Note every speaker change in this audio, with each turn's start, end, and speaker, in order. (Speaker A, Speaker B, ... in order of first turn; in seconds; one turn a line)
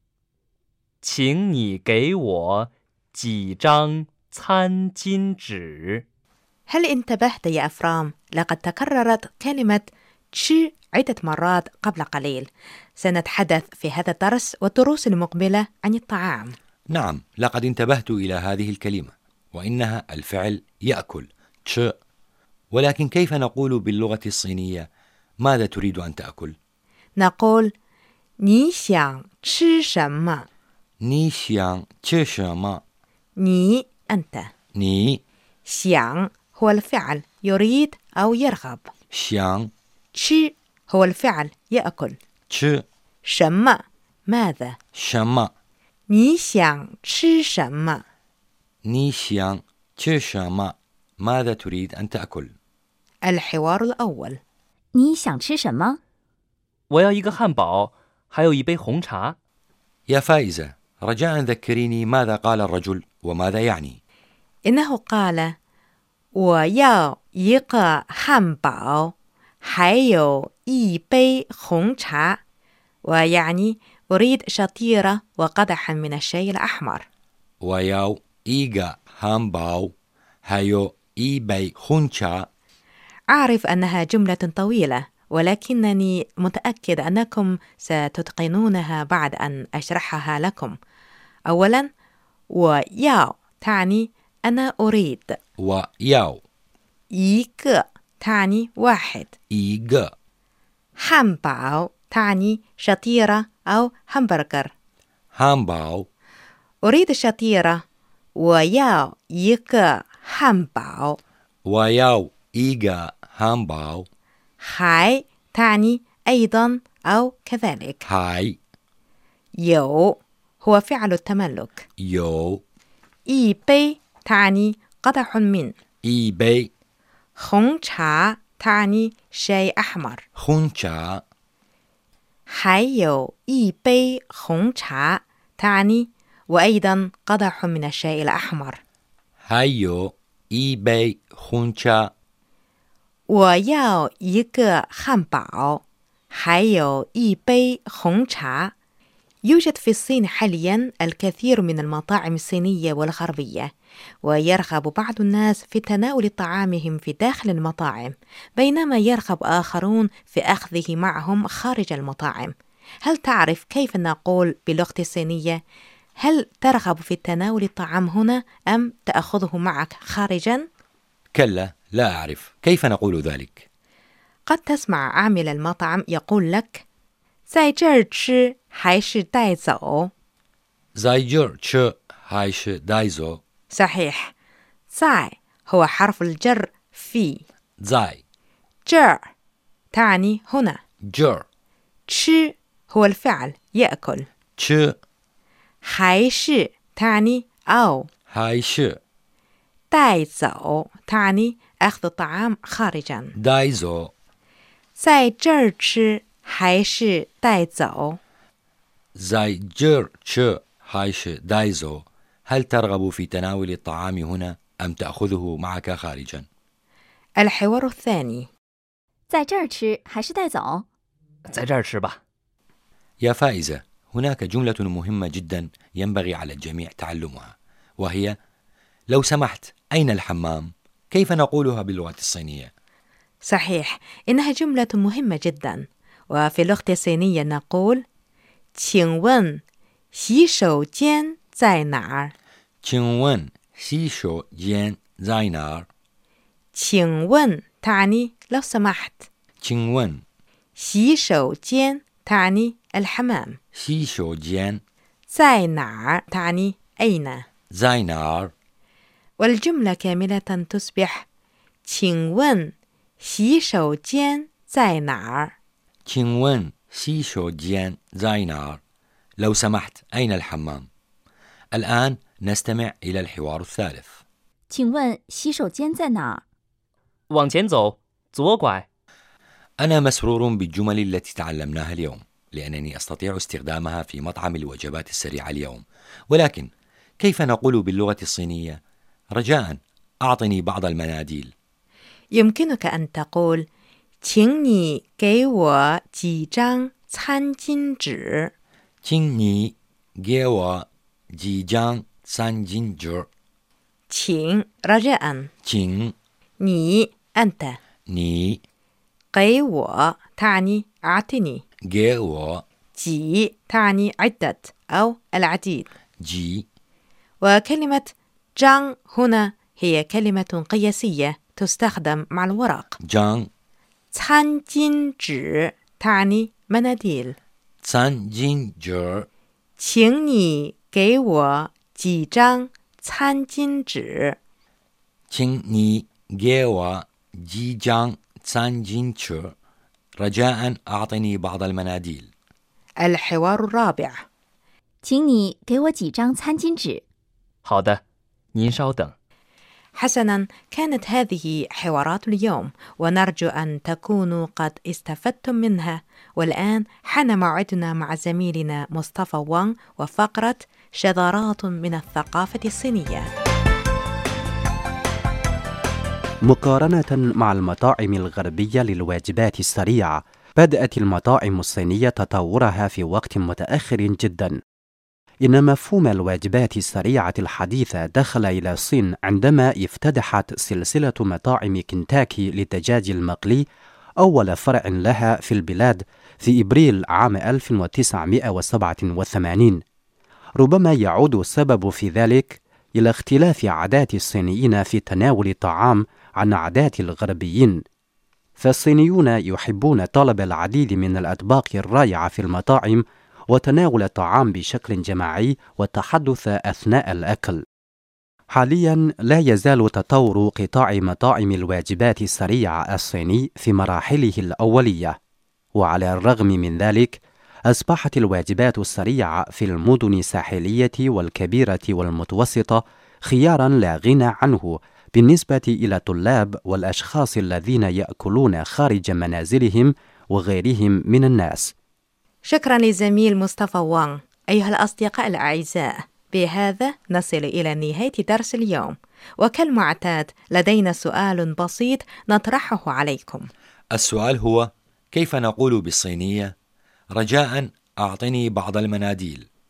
Speaker A: 1.0-6.0
Speaker B: 6.7-16.5
Speaker C: 16.9-21.9
Speaker C: 22.7-24.9
Speaker C: 25.4-26.6
Speaker B: 27.2-27.7
Speaker B: 28.4-30.4
Speaker C: 31.0-32.8
Speaker B: 33.4-34.5
Speaker C: 34.8-35.2
Speaker B: 35.7-38.9
Speaker C: 39.1-39.7
Speaker B: 40.1-42.2
Speaker C: 42.5-42.8
Speaker B: 43.3-44.8
Speaker C: 45.0-45.5
Speaker B: 46.1-48.0
Speaker C: 48.9-52.5
Speaker B: 53.3-54.4
Speaker D: 54.9-56.0
Speaker A: 56.9-59.4
Speaker C: 60.1-64.0
Speaker B: 64.7-65.5
Speaker B: 66.4-69.1
Speaker B: 69.6-72.4
Speaker B: 73.1-77.0
Speaker C: 77.6-79.9
Speaker C: 80.5-82.5
Speaker B: 83.3-90.8
Speaker B: 91.5-91.9
Speaker B: 92.5-95.4
Speaker C: 95.6-96.4
Speaker B: 97.1-99.3
Speaker C: 99.5-100.1
Speaker B: 101.0-104.7
Speaker C: 105.3-106.1
Speaker B: 106.8-107.8
Speaker B: 108.4-111.2
Speaker C: 111.7-114.1
Speaker B: 114.6-118.0
Speaker C: 118.0-118.6
Speaker B: 119.6-121.8
Speaker C: 122.0-122.6
Speaker B: 123.3-125.7
Speaker C: 126.0-126.7
Speaker B: 127.4-130.2
Speaker C: 130.4-131.2
Speaker B: 132.5-138.8
Speaker C: 139.4-142.0
Speaker B: 143.3-145.8
Speaker B: 146.4-148.7
Speaker B: 149.5-153.7
Speaker B: 154.2-165.6
Speaker B: 166.2-170.6
Speaker C: 171.3-173.6
Speaker B: 174.5-176.8
Speaker B: 177.5-180.1
Speaker C: 181.0-183.4
Speaker B: 183.7-184.3
Speaker B: 184.9-187.4
Speaker C: 187.8-188.2
Speaker B: 188.8-189.2
Speaker B: 189.9-190.8
Speaker C: 191.1-191.4
Speaker B: 192.1-194.3
Speaker C: 194.6-194.9
Speaker B: 195.8-198.1
Speaker C: 198.3-199.0
Speaker B: 199.9-203.3
Speaker C: 203.4-204.1
Speaker B: 205.0-208.2
Speaker C: 209.2-216.5
Speaker B: 217.4-218.5
Speaker D: 219.3-220.9
Speaker A: 221.5-222.2
Speaker C: 223.2-228.4
Speaker C: 229.1-232.7
Speaker B: 233.4-238.0
Speaker B: 238.8-239.6
Speaker B: 240.1-242.3
Speaker C: 242.8-245.9
Speaker B: 246.7-249.3
Speaker C: 249.6-250.2
Speaker B: 250.8-253.6
Speaker C: 253.7-254.8
Speaker B: 255.3-257.4
Speaker C: 257.7-258.5
Speaker B: 259.4-261.2
Speaker B: 261.9-265.5
Speaker C: 266.1-268.8
Speaker C: 269.4-270.9
Speaker C: 271.7-274.2
Speaker D: 274.7-276.4
Speaker A: 277.3-278.9
Speaker C: 279.8-288.8
Speaker C: 289.4-291.5
Speaker B: 292.3-293.6
Speaker B: 294.2-298.5
Speaker C: 299.0-303.3
Speaker B: 304.1-305.5
Speaker C: 305.6-306.1
Speaker B: 306.6-307.8
Speaker C: 308.1-308.6
Speaker B: 309.3-311.6
Speaker C: 311.9-312.6
Speaker B: 313.0-315.9
Speaker C: 316.2-316.7
Speaker B: 317.4-323.0
Speaker C: 323.0-323.5
Speaker B: 324.1-327.4
Speaker C: 327.8-329.3
Speaker B: 329.8-334.4
Speaker C: 335.3-339.5
Speaker C: 340.2-342.3
Speaker B: 343.0-344.2
Speaker D: 345.0-347.0
Speaker A: 347.6-348.0
Speaker A: 348.5-349.1
Speaker B: 350.0-363.3
Speaker E: 366.5-374.6
Speaker E: 375.4-383.6
Speaker E: 384.2-389.8
Speaker E: 390.6-397.8
Speaker E: 398.6-407.6
Speaker E: 408.5-415.2
Speaker E: 415.8-417.2
Speaker E: 417.7-431.7
Speaker B: 432.5-443.5
Speaker C: 443.9-446.5
Speaker C: 447.1-449.5